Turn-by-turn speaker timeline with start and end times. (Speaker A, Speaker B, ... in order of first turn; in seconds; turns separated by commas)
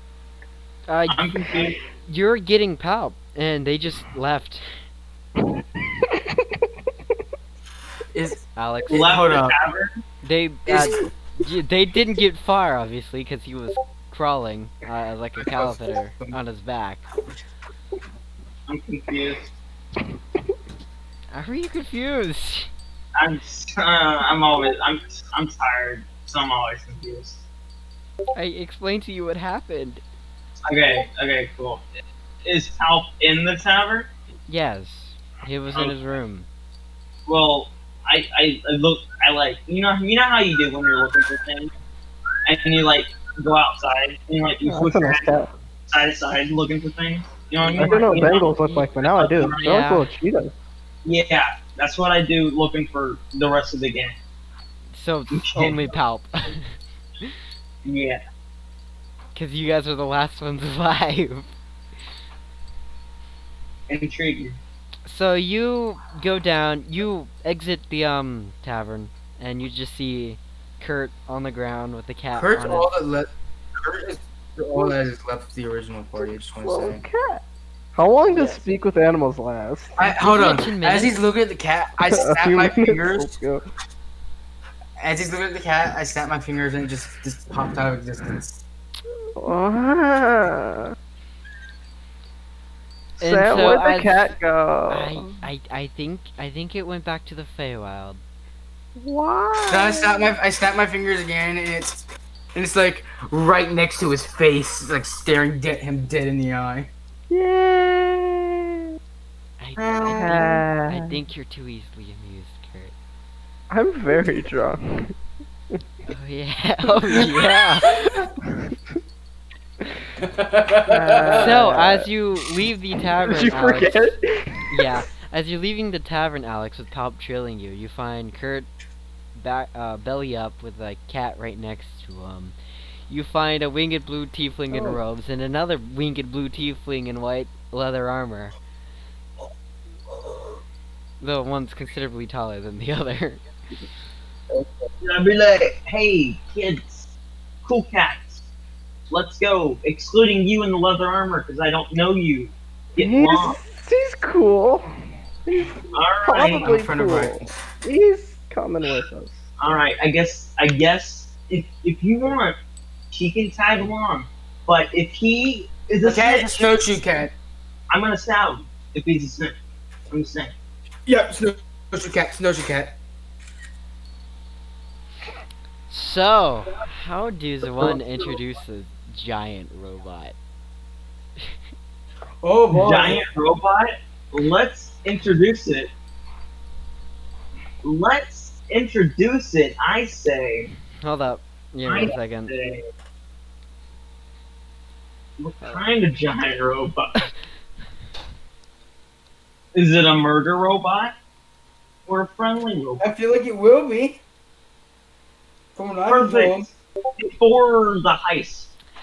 Speaker A: 0.9-4.6, Speaker B: 1.1-1.8, Speaker C: 5.8-6.7, Speaker D: 8.1-9.6, Speaker A: 8.5-9.2, Speaker B: 8.9-10.0, Speaker A: 10.2-17.1, Speaker D: 10.7-11.1, Speaker D: 15.4-16.4, Speaker B: 18.7-19.5, Speaker A: 21.3-22.7, Speaker B: 23.1-27.4, Speaker A: 28.3-30.0, Speaker B: 30.7-31.9, Speaker B: 32.4-34.1, Speaker A: 34.5-36.5, Speaker B: 37.3-41.7, Speaker B: 42.5-45.3, Speaker C: 44.6-45.5, Speaker B: 45.9-49.6, Speaker C: 47.8-50.5, Speaker A: 47.8-48.1, Speaker A: 49.6-50.1, Speaker B: 51.0-54.2, Speaker A: 54.9-57.3, Speaker B: 55.3-55.8, Speaker B: 57.8-58.2, Speaker A: 59.3-61.5, Speaker B: 63.9-64.6, Speaker A: 65.0-72.9, Speaker D: 72.3-77.0, Speaker C: 76.2-77.4, Speaker C: 77.9-80.0, Speaker A: 78.3-78.6, Speaker D: 80.0-83.3, Speaker A: 80.1-81.2, Speaker C: 82.1-83.6, Speaker D: 85.0-88.6, Speaker C: 89.4-90.9, Speaker C: 93.2-95.3, Speaker A: 93.2-94.3, Speaker A: 94.9-98.2, Speaker C: 99.0-100.3, Speaker D: 99.7-106.9, Speaker C: 107.3-108.8, Speaker A: 109.6-112.9, Speaker B: 109.8-110.4, Speaker C: 110.1-111.1, Speaker C: 113.7-115.1, Speaker A: 116.1-118.3, Speaker C: 118.4-118.8, Speaker D: 120.2-121.5, Speaker C: 120.9-122.1, Speaker A: 121.4-124.1, Speaker C: 123.2-124.7, Speaker A: 124.7-128.7, Speaker A: 129.3-132.6, Speaker A: 133.1-138.5, Speaker A: 141.2-143.4, Speaker D: 144.5-144.8, Speaker B: 145.0-147.1, Speaker B: 147.6-148.4, Speaker B: 149.1-153.6, Speaker C: 153.0-154.9, Speaker C: 155.4-159.5, Speaker B: 155.9-156.8, Speaker D: 156.6-157.6, Speaker B: 159.6-162.6, Speaker B: 163.1-166.6, Speaker D: 166.0-167.3, Speaker B: 167.9-169.5, Speaker B: 170.1-170.5, Speaker D: 171.1-173.0, Speaker A: 175.9-180.3, Speaker D: 182.4-183.2, Speaker B: 182.7-185.9, Speaker B: 187.8-190.7, Speaker A: 191.0-192.5, Speaker B: 191.9-192.8, Speaker B: 195.4-197.3, Speaker B: 199.7-201.1, Speaker B: 202.1-203.0, Speaker D: 203.0-204.2, Speaker D: 205.8-206.7, Speaker B: 206.1-208.7